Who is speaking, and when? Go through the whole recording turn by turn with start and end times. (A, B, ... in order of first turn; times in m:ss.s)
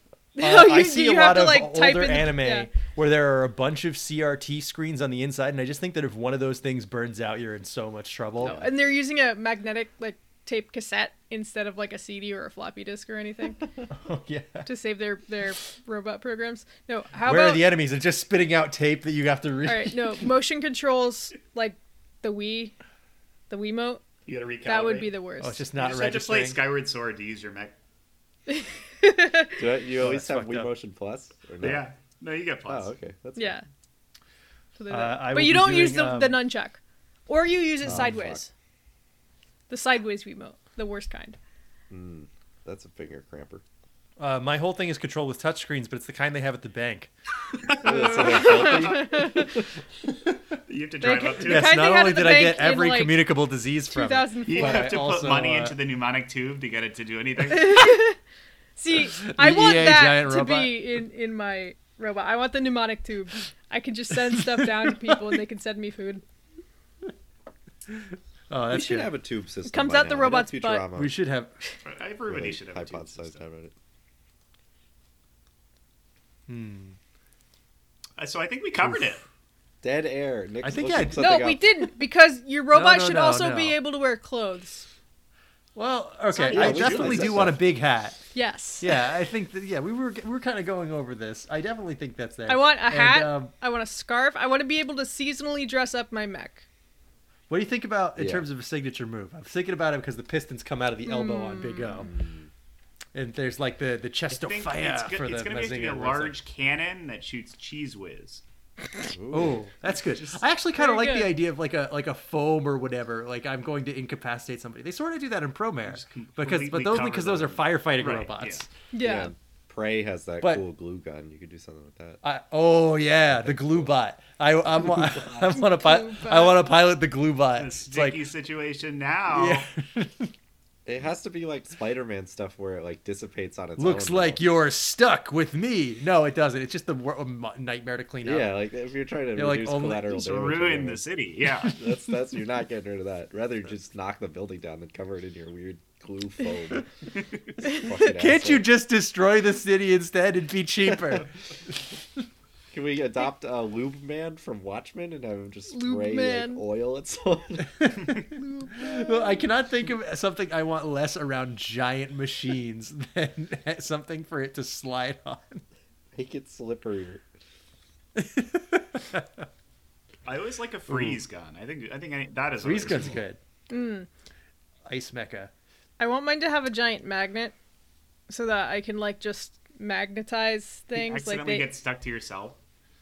0:00.4-0:02.7 A
0:00.4-0:08.6 B
0:08.4-0:08.8 C
0:08.4-0:13.6 A
0:14.0-0:14.7 B
0:14.6-0:17.7 A
0:17.2-0:20.3 B
0:19.6-0:22.7 A
0:23.5-0:24.0 A
0:24.2-0:25.2 D
0:24.6-0:25.6 A
0:25.4-0:26.6 B
0:25.7-0:27.8 D
0:28.5-0:29.6 A
0:29.6-0:31.9 C
0:30.0-0:30.7 B
0:31.6-0:32.9 D
0:32.6-0:33.6 C
0:33.4-0:33.6 A
0:34.8-0:38.5 A
0:34.9-0:36.4 B
0:37.8-0:38.4 C
0:39.7-0:41.4 A
0:41.9-0:43.6 C
0:44.2-0:47.1 B
0:47.6-0:49.0 D
0:47.8-0:49.7 C
0:48.4-0:49.5 A
0:50.6-0:51.9 D
0:51.0-0:53.4 A
0:51.4-0:55.8 B
0:53.9-0:55.0 A
0:54.4-0:58.0 D
0:57.5-0:58.2 A
0:58.8-1:06.2 A
0:58.9-1:00.8 B
1:04.3-1:05.2 B
1:07.9-1:09.1 B
1:08.7-1:11.1 C
1:09.6-1:10.8 A
1:10.9-1:11.5 B
1:11.8-1:13.4 D
1:12.3-1:13.7 C
1:16.5-1:17.0 B
1:18.2-1:19.2 D
1:18.8-1:19.1 B
1:19.8-1:21.7 C
1:20.6-1:21.4 B
1:21.2-1:24.8 A
1:22.7-1:23.8 B
1:25.8-1:33.5 B
1:26.3-1:27.4 D
1:26.5-1:27.6 C
1:28.3-1:28.9 A
1:32.5-1:36.6 A
1:37.5-1:42.1 B
1:38.2-1:38.4 C
1:41.0-1:42.1 A
1:42.0-1:42.5 C
1:43.1-1:46.4 B
1:44.3-1:48.4 D
1:49.1-1:49.6 C
1:49.3-1:58.7 B
1:49.9-1:50.4 D
1:50.8-1:51.4 A
1:55.8-1:58.6 D
1:58.9-1:59.3 A
1:59.0-2:02.2 C
2:02.2-2:08.2 B
2:03.3-2:03.9 C
2:04.7-2:05.3 C
2:05.4-2:06.6 A
2:07.6-2:09.7 D
2:09.3-2:10.3 B
2:10.8-2:14.4 C
2:13.8-2:18.6 B
2:18.2-2:21.0 C
2:19.3-2:20.0 B
2:20.0-2:21.7 D
2:21.7-2:26.9 C
2:27.6-2:28.6 C
2:28.0-2:31.8 B
2:30.9-2:31.2 C
2:32.7-2:38.1 C
2:35.7-2:36.6 A
2:37.8-2:45.6 B
2:46.1-2:47.2 C
2:48.2-2:49.4 B
2:50.2-2:53.2 D
2:50.9-2:51.2 B
2:52.6-2:53.4 B
2:53.7-2:54.1 A
2:54.8-2:55.5 B
2:56.0-2:57.5 A
2:58.3-3:01.7 A
3:00.9-3:02.6 D